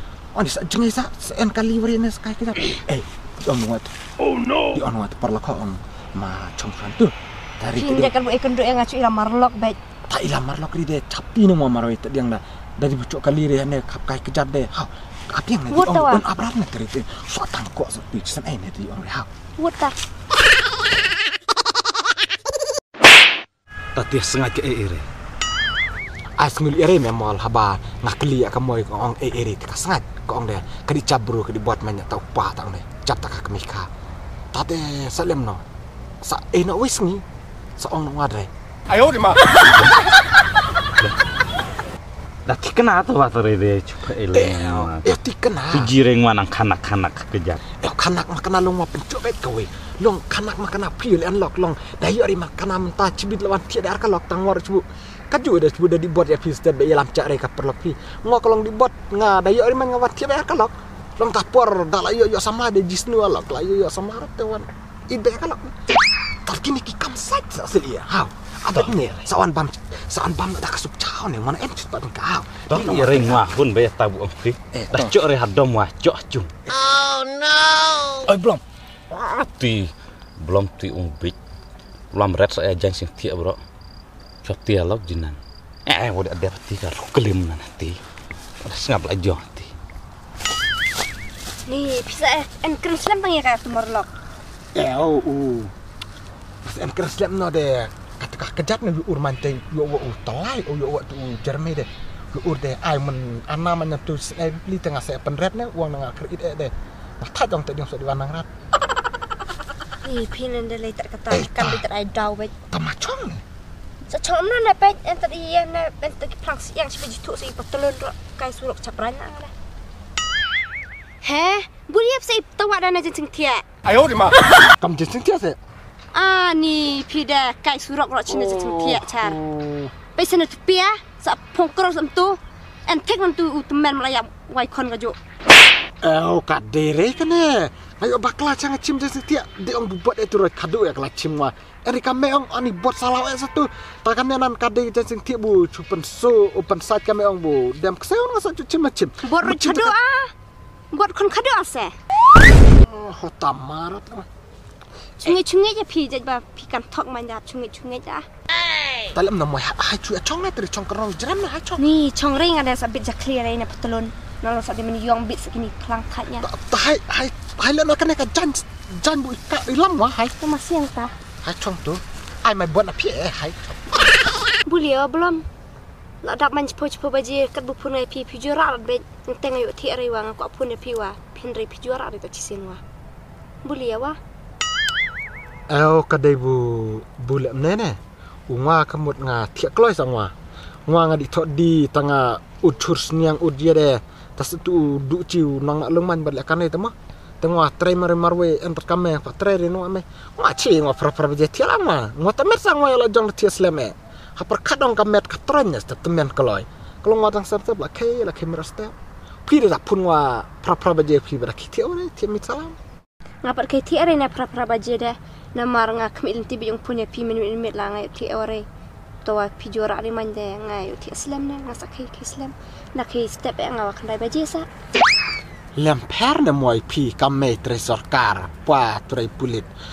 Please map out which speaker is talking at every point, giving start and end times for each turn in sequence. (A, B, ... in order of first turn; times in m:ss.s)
0:00.3-0:04.0 A
0:04.7-0:08.1 A
0:07.8-0:09.8 B
0:10.1-0:19.3 A
0:15.7-0:16.2 B
0:19.6-0:20.0 B
0:24.0-0:25.0 C
0:26.4-0:33.9 A
0:34.5-0:35.6 A
0:36.2-0:37.2 A
0:37.8-0:38.5 A
0:39.0-0:39.3 A
0:39.6-0:39.9 C
0:42.5-0:45.2 C
0:44.3-0:45.9 A
0:45.7-0:47.6 C
0:47.8-1:05.7 A
1:06.4-1:13.4 A
1:12.7-1:16.5 C
1:14.7-1:15.2 A
1:18.3-1:18.6 C
1:19.1-1:19.9 C
1:20.4-1:21.4 C
1:22.1-1:23.6 C
1:24.4-1:28.0 C
1:28.6-1:29.7 C
1:31.7-1:34.1 B
1:34.7-1:35.7 A
1:36.6-1:48.5 A
1:50.0-1:52.5 B
1:51.3-1:51.8 A
1:52.7-1:53.4 A
1:54.1-1:59.5 B
2:01.2-2:03.6 B
2:04.8-2:05.6 A
2:06.1-2:09.4 B
2:08.3-2:09.9 A
2:10.1-2:15.2 B
2:16.0-2:30.0 A
2:29.2-2:30.3 B
2:30.9-2:31.9 B
2:32.8-2:34.3 A
2:35.2-2:38.2 B
2:39.1-2:41.8 A
2:41.8-2:46.5 B
2:46.4-2:50.4 A
2:50.4-2:51.1 B
2:51.4-2:53.6 A
2:54.6-2:55.4 B
2:56.2-3:02.8 B
3:03.6-3:04.2 B
3:05.7-3:08.0 A
3:08.5-3:10.3 A
3:10.9-3:28.9 A
3:29.4-3:32.8 A
3:33.4-3:38.6 B
3:39.2-3:44.7 B
3:45.8-3:49.7 A